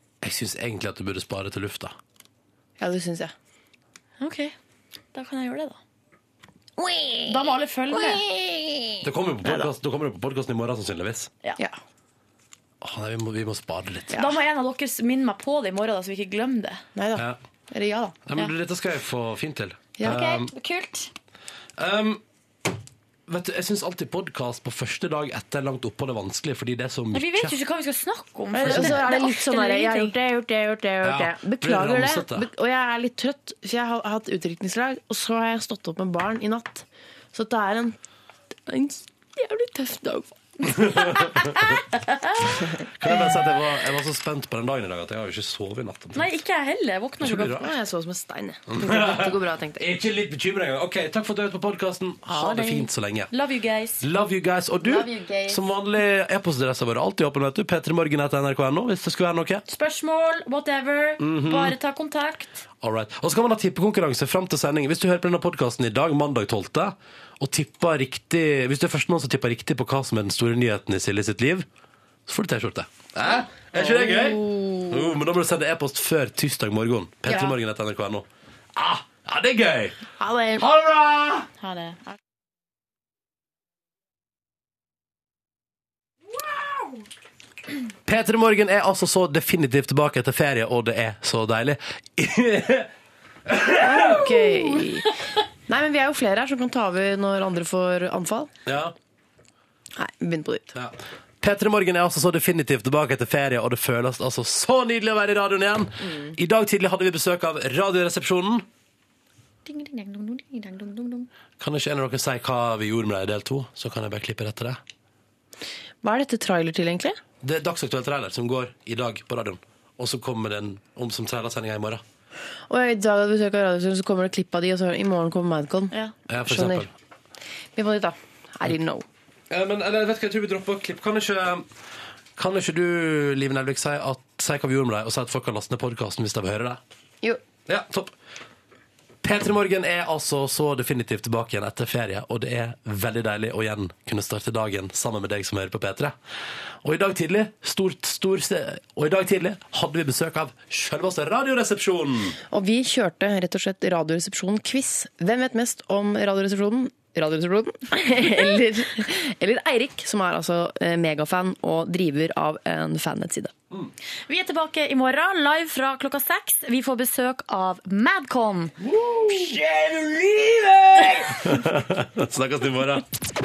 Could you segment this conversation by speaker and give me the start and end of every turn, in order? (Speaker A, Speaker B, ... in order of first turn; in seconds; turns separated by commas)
Speaker A: 0.2-1.9, Speaker B: 2.8-3.3, Speaker C: 4.2-4.5, Speaker C: 5.1-5.8, Speaker B: 6.8-7.3, Speaker C: 7.3-8.2, Speaker B: 8.0-8.8, Speaker A: 9.0-11.3, Speaker B: 9.4-9.7, Speaker A: 12.8-14.2, Speaker C: 14.2-16.8, Speaker B: 17.0-18.2, Speaker A: 18.3-20.5, Speaker C: 20.0-21.1, Speaker A: 21.8-22.2, Speaker A: 23.3-27.6, Speaker C: 27.1-30.1, Speaker B: 28.5-38.0, Speaker A: 28.6-29.0, Speaker A: 31.0-32.5, Speaker B: 38.7-40.4, Speaker A: 40.9-41.8, Speaker B: 42.6-43.3, Speaker A: 42.8-46.4, Speaker C: 46.1-47.7, Speaker A: 47.2-47.6, Speaker B: 47.5-49.9, Speaker A: 48.7-53.3, Speaker B: 52.3-52.8, Speaker C: 52.4-54.0, Speaker A: 54.0-59.6, Speaker B: 54.8-55.6, Speaker C: 59.7-62.6, Speaker A: 61.2-61.8, Speaker A: 62.8-71.7, Speaker A: 72.3-80.0, Speaker B: 73.7-75.1, Speaker B: 80.2-80.7, Speaker A: 80.6-81.5, Speaker C: 81.6-82.1, Speaker A: 88.1-92.9, Speaker A: 93.5-94.3, Speaker B: 93.8-95.2, Speaker B: 95.7-98.5, Speaker A: 98.7-99.0, Speaker B: 100.0-100.7, Speaker A: 100.7-108.7, Speaker A: 111.6-114.8, Speaker B: 116.0-117.2, Speaker A: 117.4-122.0, Speaker B: 122.7-126.9, Speaker A: 126.3-126.9, Speaker B: 127.8-129.1, Speaker A: 129.5-131.7, Speaker A: 132.4-136.8, Speaker A: 137.7-138.1, Speaker A: 139.2-146.2, Speaker A: 146.8-152.4, Speaker B: 152.5-163.5, Speaker C: 164.3-168.8, Speaker A: 168.8-173.1